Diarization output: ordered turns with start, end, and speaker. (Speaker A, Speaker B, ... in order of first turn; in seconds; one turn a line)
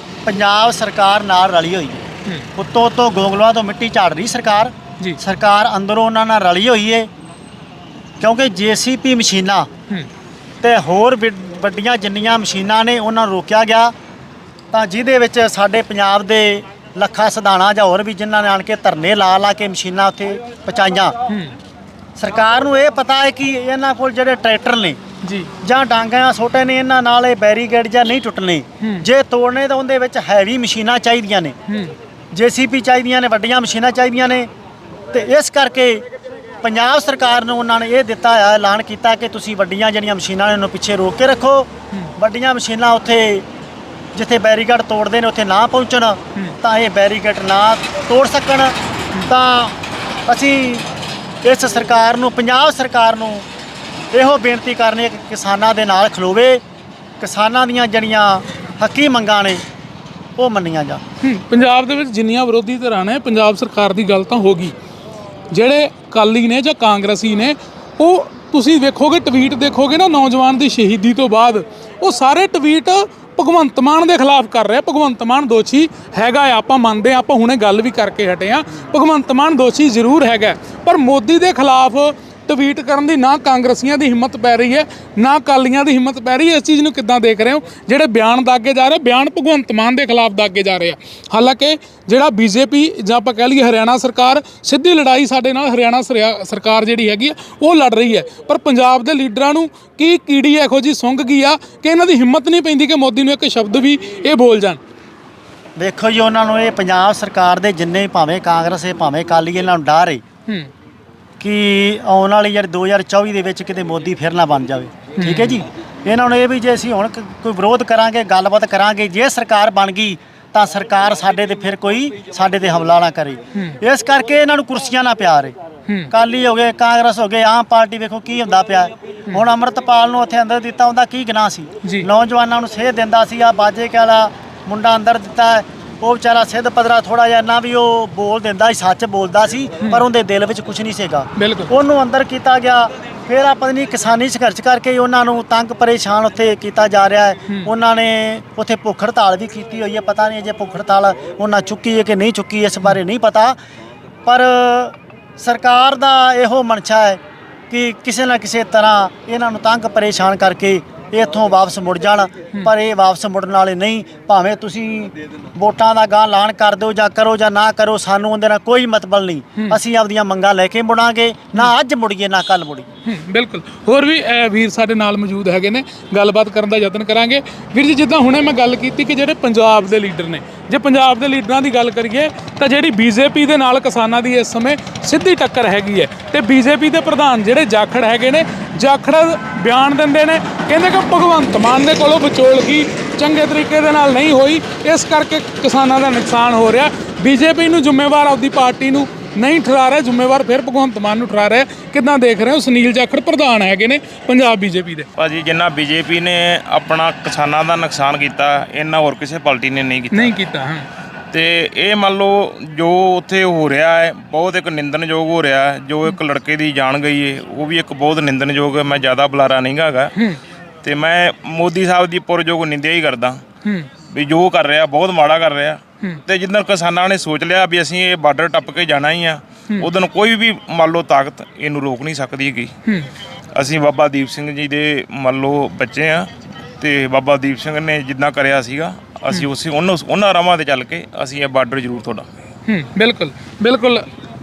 Speaker A: 0.2-2.0
Speaker A: 2.6-7.1
Speaker A: 8.2-9.7
Speaker A: 10.6-13.9
Speaker A: 14.7-21.1
Speaker B: 21.3-21.6
Speaker A: 22.2-25.0
Speaker B: 25.2-25.5
Speaker A: 25.6-31.6
Speaker B: 31.7-31.9
Speaker A: 32.3-34.5
Speaker A: 35.1-36.0
Speaker A: 36.6-43.5
Speaker A: 44.1-48.8
Speaker A: 49.3-50.9
Speaker A: 51.4-53.5
Speaker A: 54.1-56.6
Speaker A: 57.2-59.6
Speaker A: 60.4-61.0
Speaker B: 61.2-64.7
Speaker B: 65.5-104.8
Speaker A: 105.8-110.2
Speaker A: 111.4-125.5
Speaker B: 115.2-115.6
Speaker A: 126.1-153.6
Speaker B: 141.4-141.7
Speaker A: 154.3-172.9
Speaker B: 173.1-205.1
Speaker C: 205.2-210.3
Speaker B: 210.1-210.9
Speaker C: 211.3-220.1
Speaker C: 220.8-223.4
Speaker C: 224.1-232.7
Speaker C: 233.6-242.3
Speaker B: 242.7-244.0